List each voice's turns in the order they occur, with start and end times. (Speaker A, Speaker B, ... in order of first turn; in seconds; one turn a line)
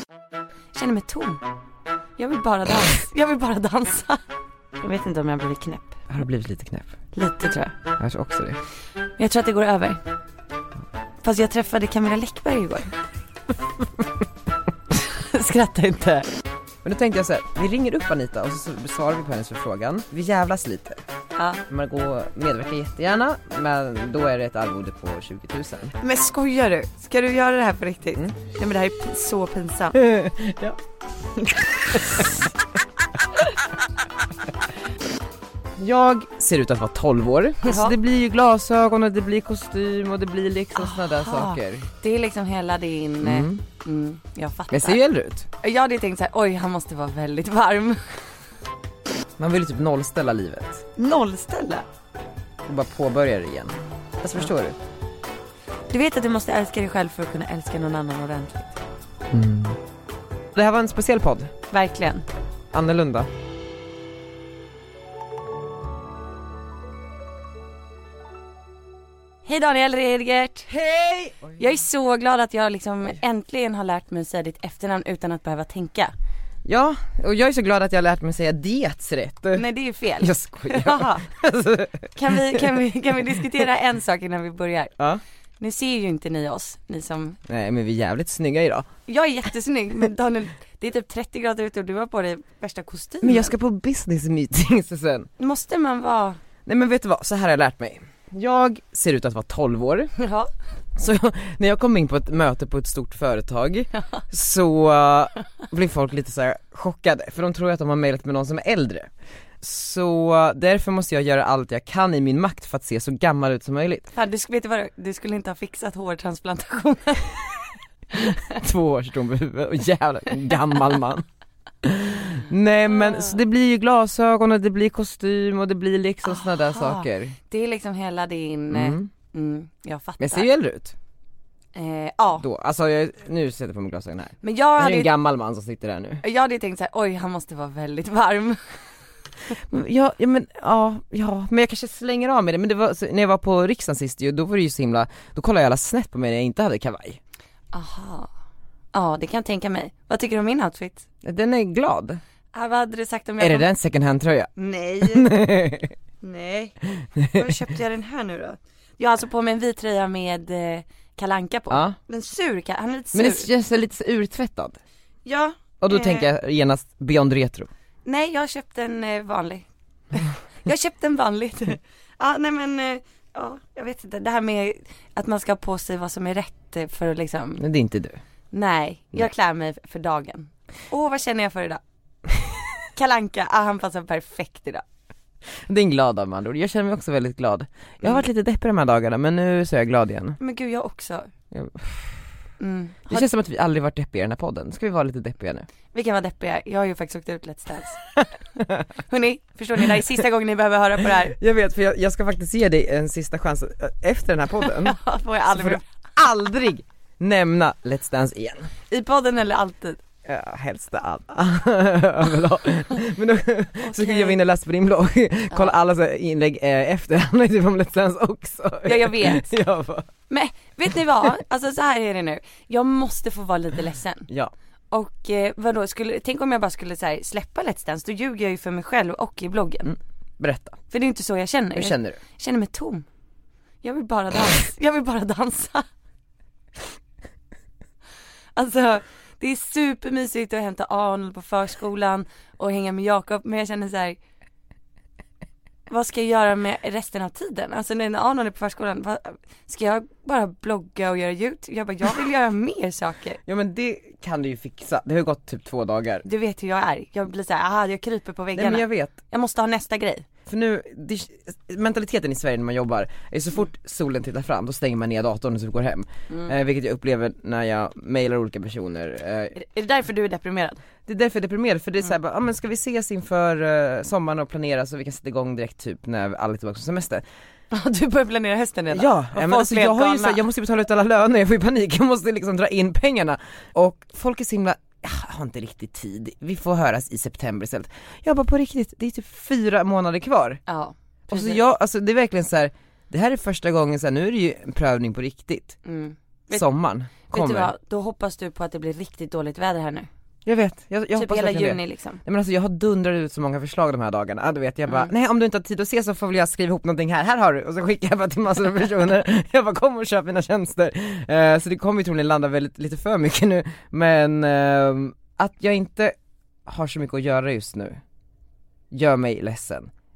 Speaker A: 0.8-1.4
Speaker A: 2.2-4.2
Speaker A: 4.8-6.0
Speaker B: 6.1-6.9
Speaker A: 7.1-7.7
Speaker B: 8.0-8.6
Speaker A: 9.2-10.0
Speaker A: 11.2-12.9
Speaker A: 14.9-16.3
Speaker B: 16.8-21.0
Speaker A: 21.4-21.6
Speaker B: 21.7-25.9
Speaker A: 26.0-30.0
Speaker B: 29.9-30.8
Speaker B: 35.8-41.9
Speaker A: 37.6-38.0
Speaker A: 40.8-45.0
Speaker B: 43.2-43.6
Speaker B: 44.7-45.5
Speaker A: 45.6-48.0
Speaker B: 49.4-50.9
Speaker A: 51.0-51.9
Speaker B: 52.7-54.8
Speaker A: 55.9-58.7
Speaker B: 59.3-59.8
Speaker B: 60.5-61.5
Speaker A: 61.7-62.3
Speaker B: 62.7-63.3
Speaker A: 69.5-70.7
Speaker B: 70.7-71.6
Speaker A: 71.6-76.1
Speaker B: 76.7-79.6
Speaker A: 79.5-81.3
Speaker B: 80.2-82.6
Speaker A: 82.2-84.9
Speaker A: 85.6-87.4
Speaker B: 87.5-88.9
Speaker A: 89.1-93.5
Speaker B: 93.2-95.3
Speaker A: 95.4-96.4
Speaker B: 96.7-100.1
Speaker A: 100.2-100.5
Speaker B: 101.0-109.1
Speaker B: 109.6-114.1
Speaker A: 114.2-117.4
Speaker B: 118.3-121.2
Speaker B: 121.8-127.4
Speaker A: 122.9-123.3
Speaker A: 126.2-130.5
Speaker B: 128.7-129.1
Speaker B: 130.2-130.9
Speaker A: 131.8-132.5
Speaker B: 132.4-136.2
Speaker A: 134.4-135.1
Speaker A: 136.2-138.6
Speaker B: 139.6-147.2
Speaker A: 147.7-148.3
Speaker A: 148.9-151.1
Speaker B: 151.2-152.2
Speaker A: 152.5-153.7
Speaker B: 153.4-154.5
Speaker A: 154.6-155.4
Speaker B: 155.0-155.9
Speaker A: 156.2-156.7
Speaker B: 157.2-157.5
Speaker A: 157.3-163.5
Speaker B: 161.7-162.0
Speaker B: 163.1-164.8
Speaker A: 165.3-166.3
Speaker B: 165.8-167.7
Speaker A: 168.1-177.6
Speaker B: 177.6-178.2
Speaker A: 178.5-181.8
Speaker A: 183.0-184.8
Speaker B: 185.7-190.4
Speaker A: 190.4-191.3
Speaker B: 191.5-192.2
Speaker A: 192.6-193.3
Speaker B: 193.1-195.7
Speaker A: 195.9-198.0
Speaker A: 199.1-201.4
Speaker B: 201.4-205.0
Speaker A: 204.6-205.8
Speaker B: 205.5-208.7
Speaker A: 208.9-210.0
Speaker B: 210.3-220.1
Speaker A: 213.8-214.4
Speaker A: 218.8-219.5
Speaker A: 220.3-224.3
Speaker A: 224.9-229.9
Speaker B: 229.9-230.8
Speaker A: 230.9-233.1
Speaker B: 231.8-232.2
Speaker A: 233.8-235.9
Speaker A: 238.6-244.2
Speaker A: 245.9-253.4
Speaker B: 253.5-256.2
Speaker A: 256.2-260.3
Speaker B: 258.6-259.1
Speaker B: 260.5-269.6
Speaker A: 269.5-270.8
Speaker B: 271.1-277.2
Speaker A: 277.7-280.4
Speaker B: 278.9-290.6
Speaker A: 290.7-291.6
Speaker B: 291.3-295.8
Speaker A: 295.9-296.7
Speaker B: 296.5-297.7
Speaker A: 297.3-300.1
Speaker B: 300.5-316.1
Speaker A: 301.1-302.2
Speaker B: 316.7-318.0
Speaker B: 318.9-319.9